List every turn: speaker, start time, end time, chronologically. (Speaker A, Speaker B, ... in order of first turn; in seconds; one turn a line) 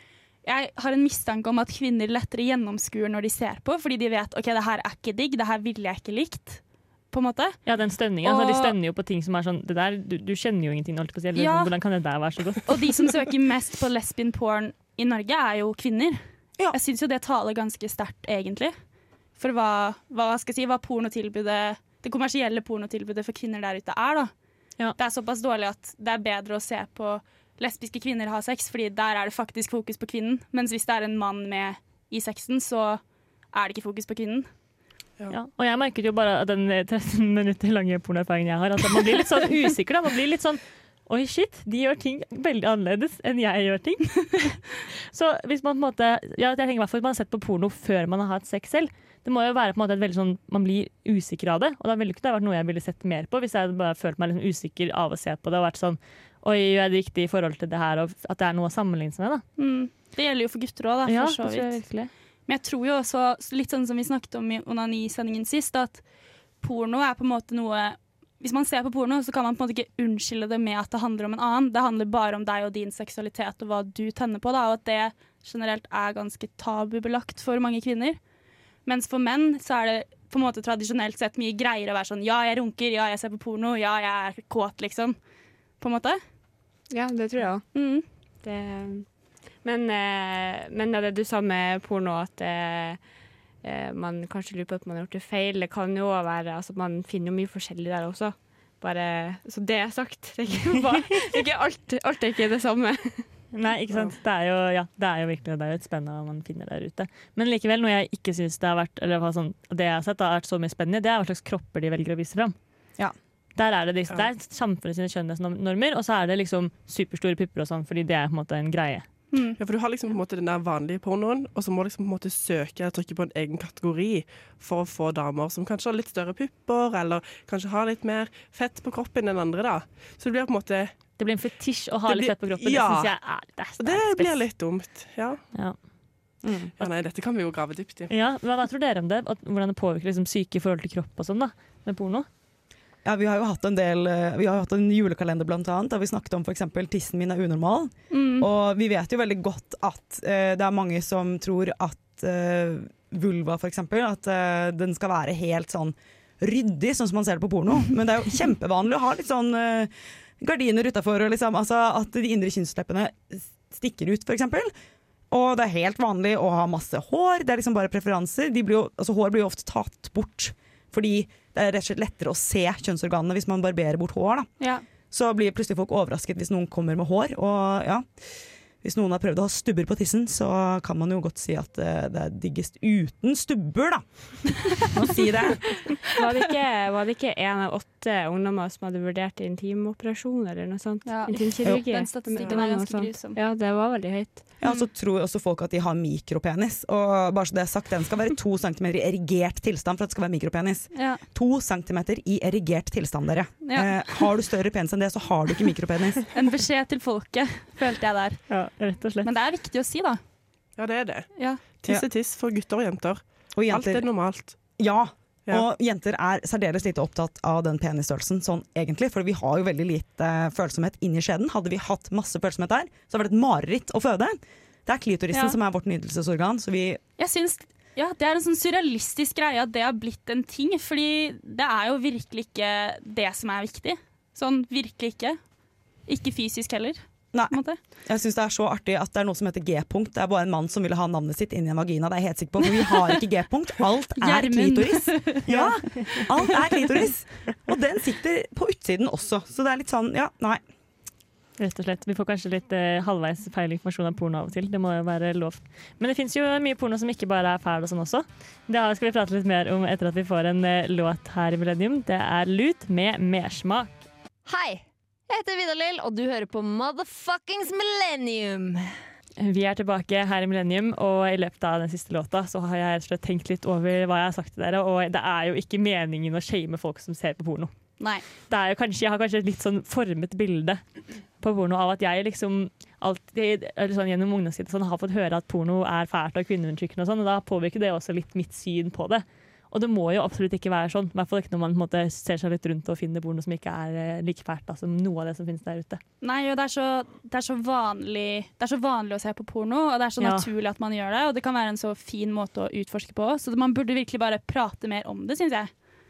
Speaker A: 0.4-8.8
Speaker B: 7.7-12.8
Speaker A: 11.3-11.7
Speaker A: 12.7-18.7
Speaker A: 19.4-24.3
Speaker A: 24.9-34.5
Speaker B: 35.3-59.4
Speaker A: 59.6-66.0
Speaker B: 61.0-62.1
Speaker A: 66.6-78.2
Speaker A: 78.8-85.2
Speaker A: 85.8-86.2
Speaker C: 86.9-93.0
Speaker A: 87.7-88.0
Speaker C: 93.6-103.4
Speaker B: 103.5-112.5
Speaker B: 113.5-119.1
Speaker A: 119.3-119.6
Speaker D: 119.6-131.2
Speaker B: 131.2-134.4
Speaker D: 132.0-135.4
Speaker B: 135.5-136.9
Speaker E: 136.4-136.7
Speaker D: 136.8-138.1
Speaker B: 138.1-142.3
Speaker E: 143.0-164.7
Speaker A: 148.1-148.5
Speaker E: 165.3-174.5
Speaker A: 174.6-174.8
Speaker E: 175.1-186.0
Speaker C: 186.1-194.4
Speaker A: 191.0-193.4
Speaker E: 191.6-192.6
Speaker E: 194.6-206.2
Speaker A: 200.9-201.2
Speaker A: 203.6-204.3
Speaker A: 206.3-208.6
Speaker B: 208.5-209.3
Speaker A: 209.2-210.2
Speaker D: 210.7-214.8
Speaker A: 211.3-211.6
Speaker E: 213.5-227.0
Speaker A: 225.3-225.6
Speaker A: 227.2-235.4
Speaker A: 236.1-237.8
Speaker E: 237.3-250.6
Speaker A: 244.2-246.4
Speaker B: 251.6-264.0
Speaker F: 264.4-269.0
Speaker B: 269.4-280.8
Speaker A: 278.0-278.2
Speaker B: 281.4-296.0
Speaker A: 296.2-305.7
Speaker B: 300.2-300.5